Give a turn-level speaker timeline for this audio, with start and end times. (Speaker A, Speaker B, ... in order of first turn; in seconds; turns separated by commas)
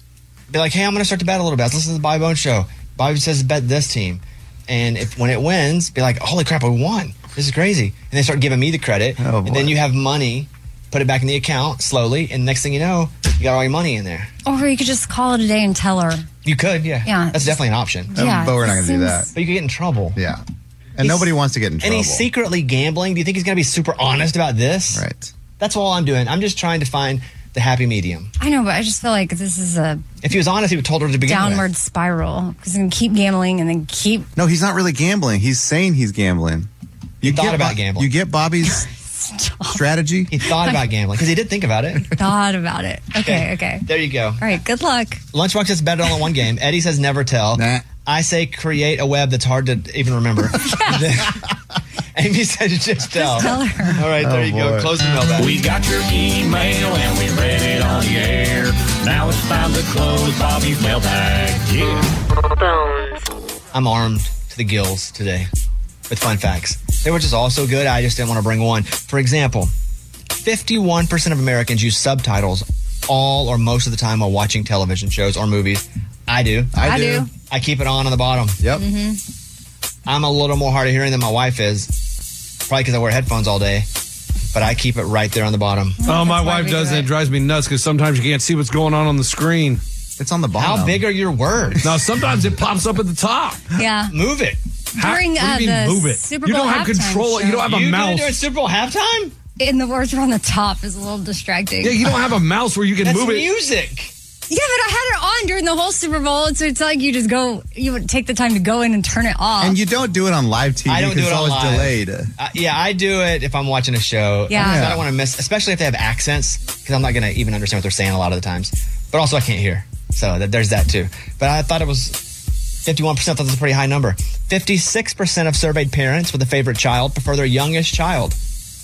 Speaker A: 0.5-14.3, Speaker B: 9.2-9.8, Speaker C: 14.5-16.3, Speaker A: 16.4-18.2, Speaker C: 17.1-17.6, Speaker C: 18.1-19.3, Speaker B: 18.1-19.3, Speaker A: 19.3-20.2, Speaker B: 20.2-20.4, Speaker B: 21.0-22.3, Speaker A: 21.8-25.0, Speaker B: 24.9-25.3, Speaker A: 25.6-28.3, Speaker C: 28.4-30.0, Speaker A: 30.2-31.7, Speaker C: 31.2-34.3, Speaker B: 34.4-36.7, Speaker B: 37.2-38.9, Speaker A: 37.2-38.1, Speaker C: 38.7-39.8, Speaker B: 39.7-40.3, Speaker A: 40.3-42.1, Speaker C: 40.5-40.8, Speaker C: 42.1-43.9, Speaker A: 43.1-44.4, Speaker C: 44.4-45.2, Speaker A: 45.3-51.5, Speaker B: 47.5-47.9, Speaker C: 50.6-51.0, Speaker A: 52.1-55.6, Speaker C: 53.1-54.0, Speaker B: 54.1-54.9, Speaker D: 55.4-62.1, Speaker D: 62.6-63.2, Speaker A: 63.7-65.5, Speaker A: 66.1-69.7, Speaker A: 70.3-76.8, Speaker B: 76.7-77.3, Speaker C: 76.8-77.3, Speaker A: 77.4-78.6, Speaker B: 78.6-78.8, Speaker C: 78.8-79.2, Speaker A: 80.1-81.9, Speaker A: 82.7-83.9, Speaker A: 84.5-86.0, Speaker C: 86.0-87.1, Speaker E: 86.0-89.8, Speaker B: 90.2-91.1, Speaker A: 90.6-91.9, Speaker E: 91.8-93.6, Speaker C: 93.8-94.1, Speaker A: 94.1-94.6, Speaker E: 95.0-98.4, Speaker C: 95.0-97.6, Speaker A: 97.6-99.3, Speaker C: 99.6-102.0, Speaker E: 101.8-103.5, Speaker A: 103.0-104.1, Speaker C: 104.5-109.8, Speaker B: 109.6-112.3, Speaker A: 110.9-122.2, Speaker C: 114.5-114.9, Speaker B: 114.5-115.1, Speaker A: 122.8-128.4